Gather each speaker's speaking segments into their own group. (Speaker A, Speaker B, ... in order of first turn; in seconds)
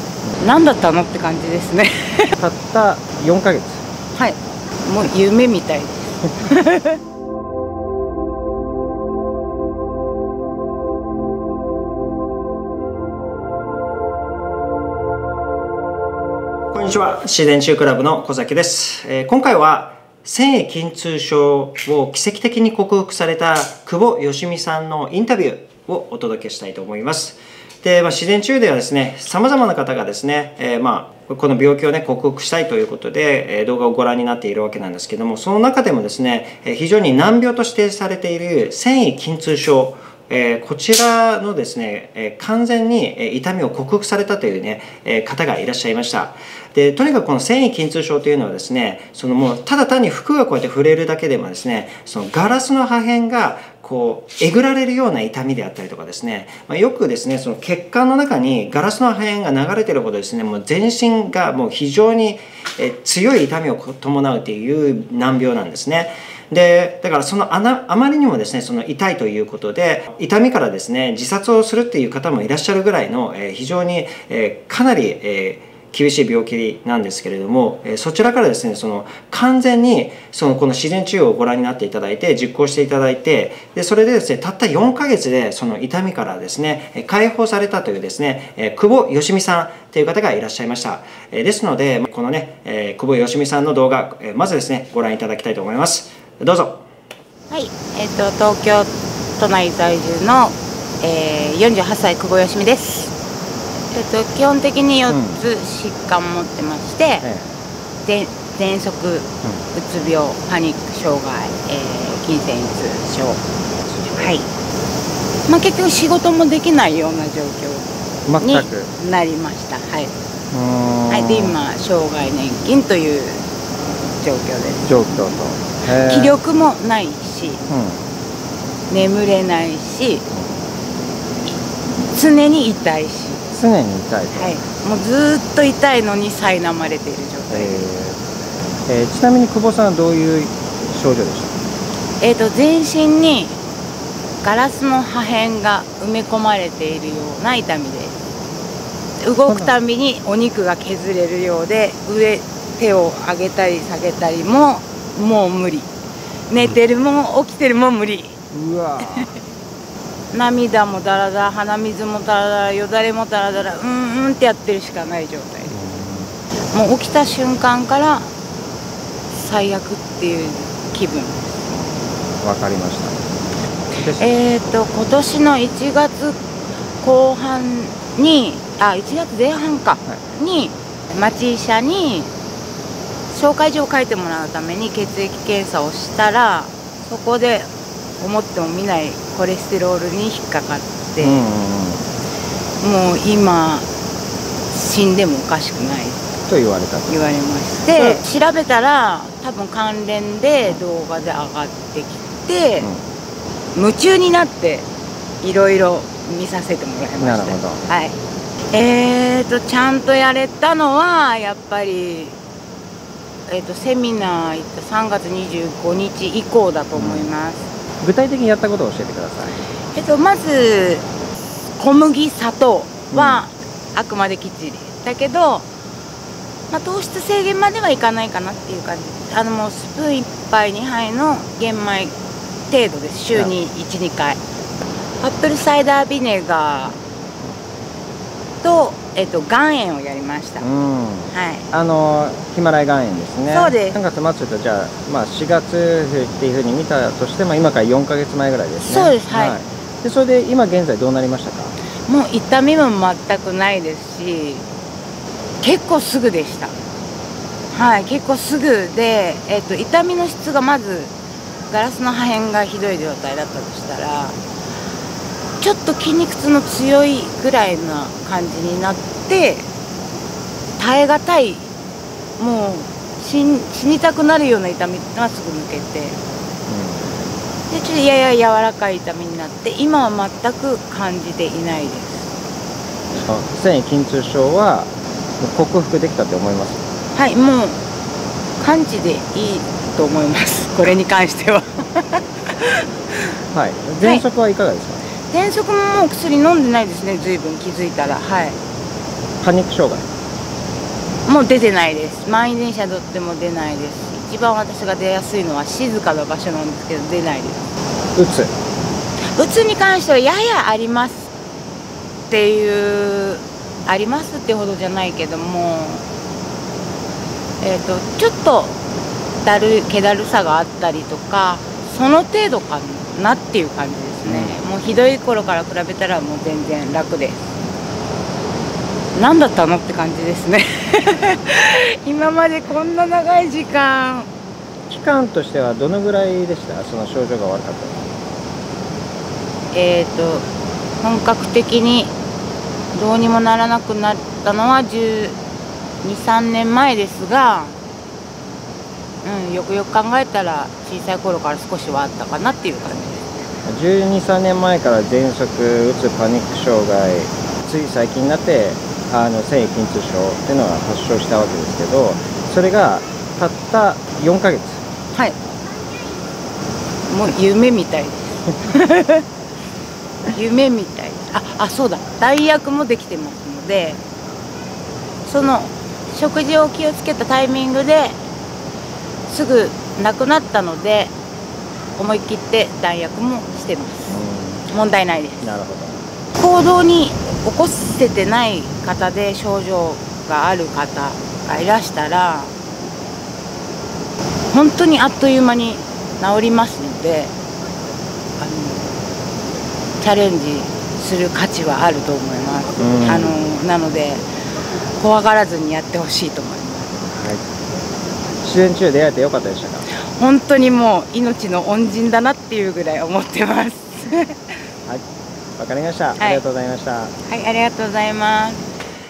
Speaker A: 0.4-2.4, 4.2-7.0, 97.5-103.2, 103.9-107.3, 108.0-113.4, 114.2-114.5, 115.5-117.9, 118.4-120.1, 121.1-123.5, 124.2-125.1, 126.0-127.6, 128.9-130.2, 132.1-133.4, 134.3-137.8, 142.2-143.6, 144.4-148.2, 149.2-155.9, 156.5-158.4, 160.3-165.8, 166.7-168.3, 169.3-171.8, 174.2-176.4, 177.0-182.3, 183.3-191.5, 192.8-193.9, 194.7-196.3, 197.1-202.9, 203.8-204.9, 205.4-208.2, 208.7-212.4, 213.5-217.7, 219.9-221.1, 221.8-225.7, 226.7-232.2, 232.7-234.4, 235.2-237.0, 238.6-240.7, 241.3-241.7, 243.5-244.0, 248.9-249.6, 252.1-254.7, 255.6-256.8, 257.7-261.1, 261.7-264.4, 265.6-269.7, 270.8-271.7, 272.4-276.2, 277.7-282.3, 287.1-287.8, 288.6-293.2, 295.3-298.6, 301.2-307.7, 309.4-311.3, 312.3-316.1, 317.6-318.8, 319.4-327.5, 329.1-334.3, 339.7-340.5, 341.0-342.1, 342.9-345.4, 346.0-347.8, 349.2-353.2, 367.1-369.2, 370.3-374.0, 375.2-378.2, 379.3-381.1, 382.0-384.1, 384.7-385.5, 386.4-392.5, 394.5-397.3, 398.4-399.0, 400.0-404.3, 405.0-406.9, 410.1-414.5, 417.3-418.6
Speaker B: 2.4-3.8, 16.7-96.8, 105.1-105.4, 107.2-107.6, 113.9-114.3, 118.3-118.9, 120.5-121.6, 124.8-126.4, 127.7-128.1, 130.3-130.6, 133.5-134.6, 137.5-138.2, 138.9-141.6, 149.5-149.8, 158.5-159.3, 165.7-166.3, 172.4-173.2, 173.9-174.7, 191.2-192.1, 196.5-197.2, 197.9-198.2, 202.8-203.1, 207.2-207.8, 216.9-217.3, 218.0-219.6, 223.1-223.4, 240.6-251.8, 276.7-277.2, 283.2-286.8, 293.5-295.0, 299.4-300.1, 308.1-308.5, 324.3-324.6, 334.9-338.1, 353.7-364.8, 384.1-384.7, 385.4-386.1, 402.8-403.4, 407.1-407.4, 408.4-409.9, 415.6-417.1